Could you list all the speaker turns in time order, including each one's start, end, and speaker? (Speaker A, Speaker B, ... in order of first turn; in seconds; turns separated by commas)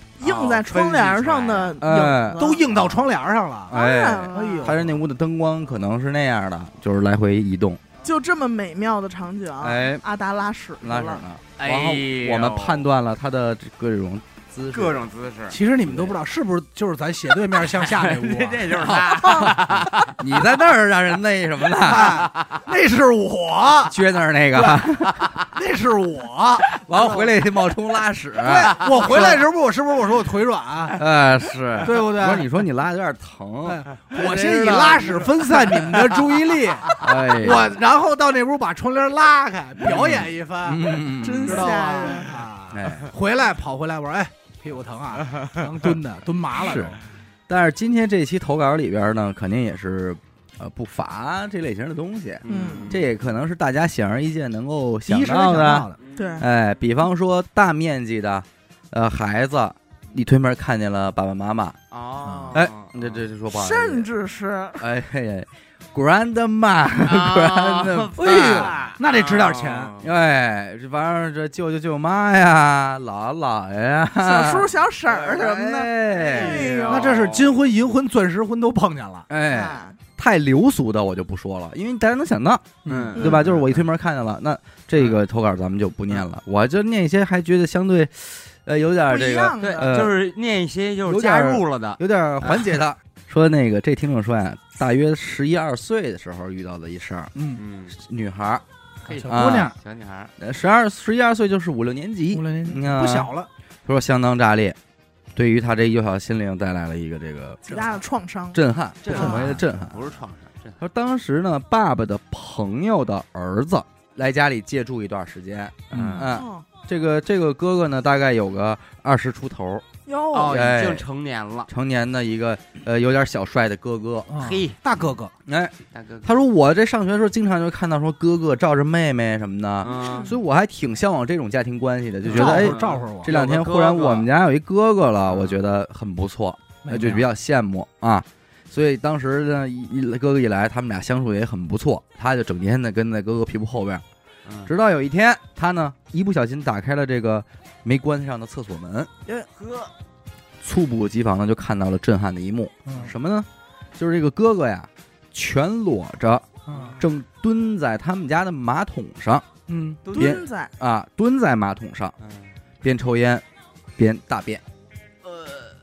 Speaker A: 0.2-2.6, Speaker B: 0.2-1.8, Speaker C: 1.8-2.5, Speaker D: 2.4-3.8, Speaker C: 3.7-7.8, Speaker A: 3.7-4.8, Speaker D: 4.3-4.9, Speaker A: 8.0-11.2, Speaker C: 9.6-10.0, Speaker C: 10.8-15.0, Speaker B: 11.6-12.9, Speaker B: 14.7-15.6, Speaker D: 15.5-18.9, Speaker C: 15.8-16.2, Speaker B: 17.5-20.2, Speaker C: 18.7-22.3, Speaker A: 19.2-19.5, Speaker D: 21.8-23.9, Speaker C: 23.9-25.4, Speaker D: 24.6-24.9, Speaker D: 25.5-26.8, Speaker C: 26.8-29.4, Speaker D: 28.4-31.0, Speaker B: 28.7-29.3, Speaker C: 30.9-35.1, Speaker D: 31.8-32.5, Speaker D: 33.6-40.9, Speaker B: 34.3-36.1, Speaker C: 37.0-37.7, Speaker C: 39.8-41.8, Speaker A: 41.2-42.3, Speaker D: 41.4-47.0, Speaker C: 42.7-43.1, Speaker C: 46.5-61.8, Speaker B: 52.4-53.0, Speaker A: 52.5-52.9, Speaker D: 55.1-56.0, Speaker B: 56.0-56.3, Speaker A: 56.1-56.5, Speaker B: 61.9-63.2, Speaker D: 62.2-62.6, Speaker C: 62.5-64.1, Speaker A: 63.5-64.8, Speaker C: 64.8-68.7, Speaker B: 67.0-70.1, Speaker D: 68.2-70.0, Speaker C: 70.0-76.7, Speaker A: 74.2-77.1, Speaker B: 76.1-77.6, Speaker D: 76.9-79.3, Speaker C: 79.3-90.2, Speaker A: 79.5-80.0, Speaker D: 82.8-83.2, Speaker B: 82.9-83.8, Speaker A: 89.1-89.9, Speaker B: 89.6-92.8, Speaker C: 91.1-97.3, Speaker D: 97.3-97.6, Speaker B: 97.5-98.0, Speaker C: 97.9-98.6, Speaker B: 99.0-100.3, Speaker D: 99.1-99.8, Speaker C: 99.3-99.7, Speaker C: 100.4-103.3, Speaker D: 102.3-103.5, Speaker C: 103.8-104.8, Speaker C: 105.3-107.6, Speaker A: 107.6-108.6, Speaker C: 108.5-110.0, Speaker B: 109.0-110.8, Speaker A: 109.1-109.5, Speaker C: 110.8-119.8, Speaker B: 115.9-116.3, Speaker A: 116.2-116.7, Speaker A: 120.1-120.7, Speaker B: 120.3-121.7, Speaker C: 120.5-121.0, Speaker C: 121.7-124.3, Speaker D: 124.3-125.3, Speaker B: 124.3-124.8, Speaker C: 125.5-144.0, Speaker B: 125.9-126.3, Speaker B: 129.8-130.3, Speaker A: 130.0-130.3, Speaker B: 132.2-134.3, Speaker D: 132.3-133.3, Speaker B: 135.3-135.6, Speaker D: 136.8-137.2, Speaker B: 144.5-144.7, Speaker C: 144.7-149.1, Speaker B: 149.3-149.9, Speaker C: 150.6-156.5, Speaker D: 152.9-153.1, Speaker D: 156.7-157.0, Speaker B: 156.7-157.0, Speaker C: 157.0-159.5, Speaker D: 159.7-160.0, Speaker B: 160.1-160.4, Speaker A: 160.1-160.7, Speaker C: 160.2-162.2, Speaker B: 162.2-162.5, Speaker C: 162.8-163.4, Speaker C: 164.0-164.6, Speaker B: 165.3-165.8